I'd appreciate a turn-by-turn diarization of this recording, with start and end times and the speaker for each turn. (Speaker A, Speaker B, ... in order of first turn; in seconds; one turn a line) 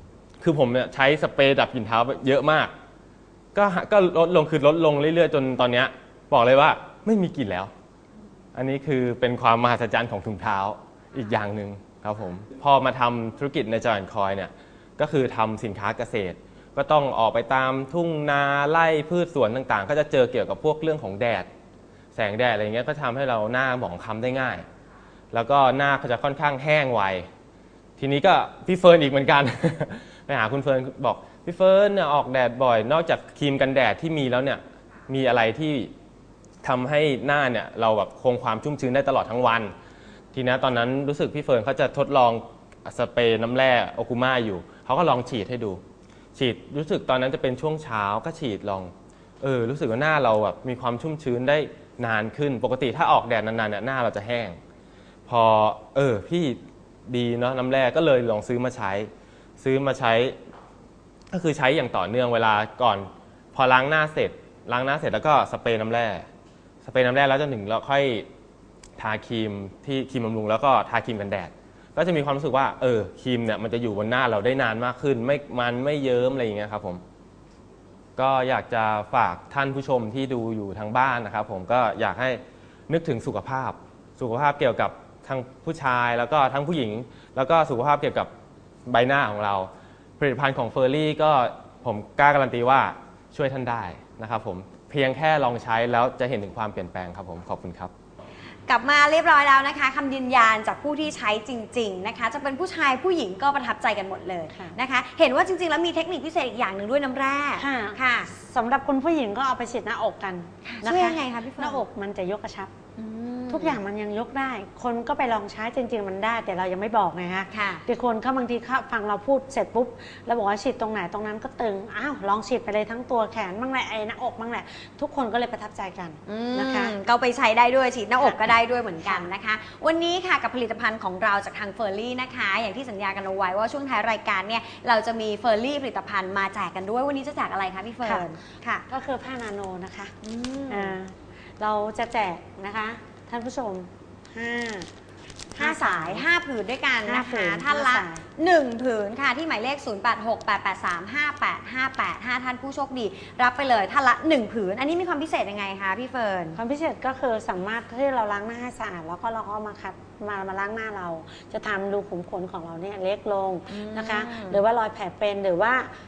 Speaker A: 0.4-2.7
Speaker A: 3.5-7.7
Speaker A: 8.5-21.5
Speaker A: 22.1-24.6
Speaker A: 25.3-27.3
Speaker A: 28.0-35.9
Speaker A: 36.6-39.7
Speaker A: 40.3-45.8
Speaker A: 46.3-54.6
Speaker A: 55.3-60.4
Speaker A: 61.3-66.3
Speaker A: 66.8-68.3
Speaker A: 69.0-77.0
Speaker A: 78.2-88.3
Speaker A: 88.8-97.9
Speaker B: 98.7-108.3
Speaker C: 104.5-104.8
Speaker C: 107.6-112.7
Speaker B: 110.6-111.8
Speaker B: 113.0-113.8
Speaker C: 113.5-126.9
Speaker B: 117.5-117.8
Speaker B: 126.3-138.8
Speaker C: 128.2-128.5
Speaker C: 138.0-138.3
Speaker C: 138.9-140.1
Speaker B: 140.2-140.9
Speaker C: 140.7-144.9
Speaker C: 145.5-146.3
Speaker B: 145.6-156.6
Speaker C: 147.0-148.2
Speaker C: 156.6-165.9
Speaker B: 163.7-164.6